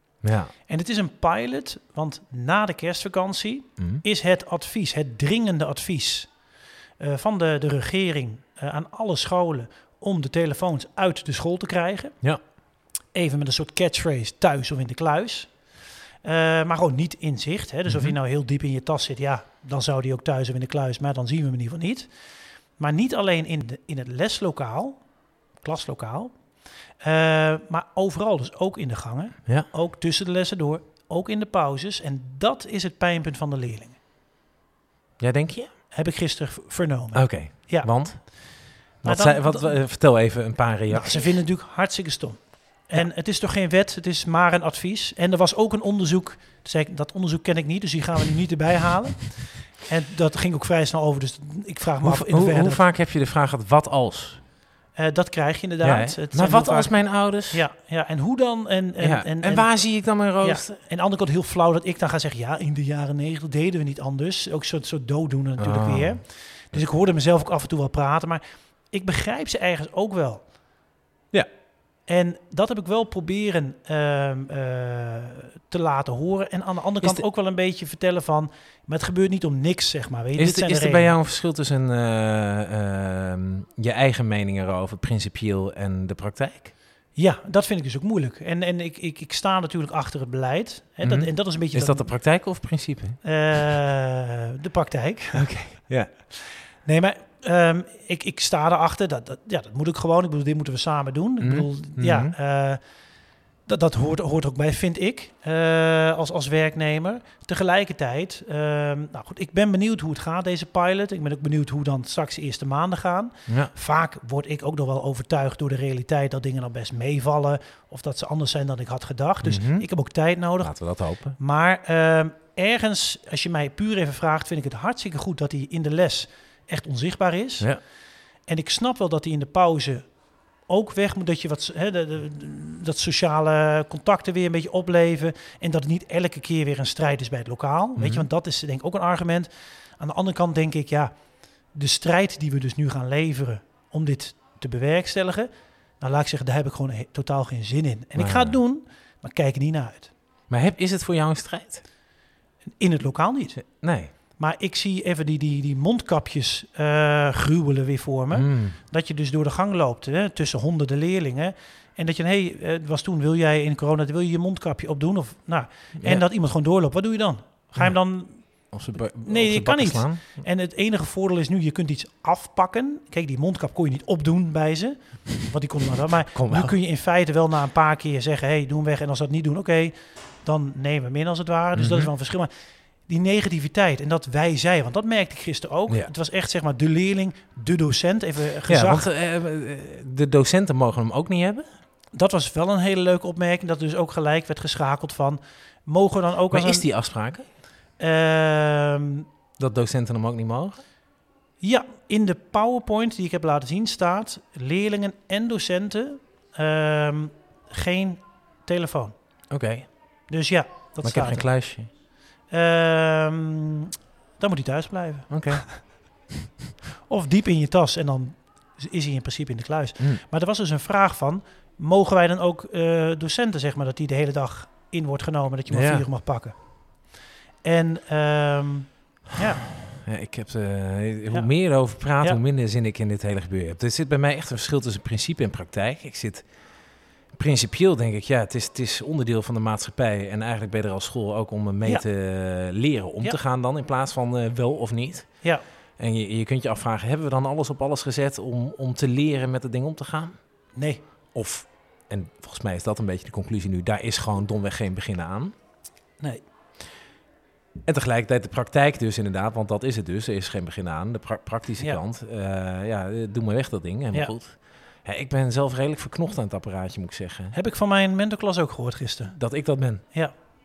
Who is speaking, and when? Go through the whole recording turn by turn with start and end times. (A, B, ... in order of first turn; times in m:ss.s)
0:00.2-0:00.5 A
0:00.7-0:06.3 B
0:03.8-0:04.0 A
0:07.0-0:12.2 B
0:13.1-0:15.6 B
0:16.2-0:22.1 B
0:17.9-0:18.2 A
0:22.8-0:25.0 B
0:25.6-0:26.4 B
0:27.0-0:34.0 B
0:35.2-0:35.7 A
0:35.9-0:38.4 B
0:37.1-0:38.4 A
0:39.0-0:41.4 A
0:39.0-0:39.8 B
0:40.9-0:52.9 B
0:52.0-0:54.4 A
0:54.9-1:10.5 B
0:55.8-0:57.6 A
0:59.0-1:00.7 A
1:05.6-1:06.2 A
1:12.0-1:21.2 B
1:20.4-1:26.7 A
1:27.1-1:32.1 B
1:31.0-1:33.6 A
1:33.2-1:35.5 B
1:35.3-1:36.1 A
1:36.8-1:42.8 B
1:41.4-1:42.4 A
1:43.6-2:07.7 B
1:53.5-1:53.7 A
1:59.4-1:59.9 A
2:00.6-2:01.4 A
2:08.5-2:10.1 B
2:10.6-2:21.1 B
2:18.0-2:18.3 A
2:21.7-2:30.1 B
2:28.1-2:28.6 A
2:30.5-2:31.8 A
2:32.8-2:33.6 B
2:33.7-2:34.1 A
2:34.3-2:48.4 B
2:38.3-2:38.8 A
2:46.0-2:46.2 A
2:48.7-2:50.3 A
2:49.1-3:02.5 B
2:56.3-2:56.7 A
3:01.7-3:02.1 A
3:03.0-3:09.1 B
3:08.6-3:11.7 A
3:12.1-3:16.9 B
3:16.5-3:17.4 A
3:18.0-3:19.3 B
3:19.6-3:20.8 A
3:21.6-3:29.1 B
3:29.5-3:29.9 A
3:30.3-3:31.5 B
3:31.0-3:31.9 A
3:32.5-3:35.8 B
3:35.3-3:35.9 A
3:37.0-3:46.6 B
3:45.7-3:46.0 A
3:47.6-3:49.6 B
3:49.9-3:56.4 A
3:51.3-3:52.4 B
3:57.3-4:05.3 A
4:06.0-4:10.3 A
4:10.7-4:11.0 B
4:11.3-4:15.5 A
4:17.8-4:27.5 A
4:27.5-4:29.4 B
4:29.3-4:30.1 A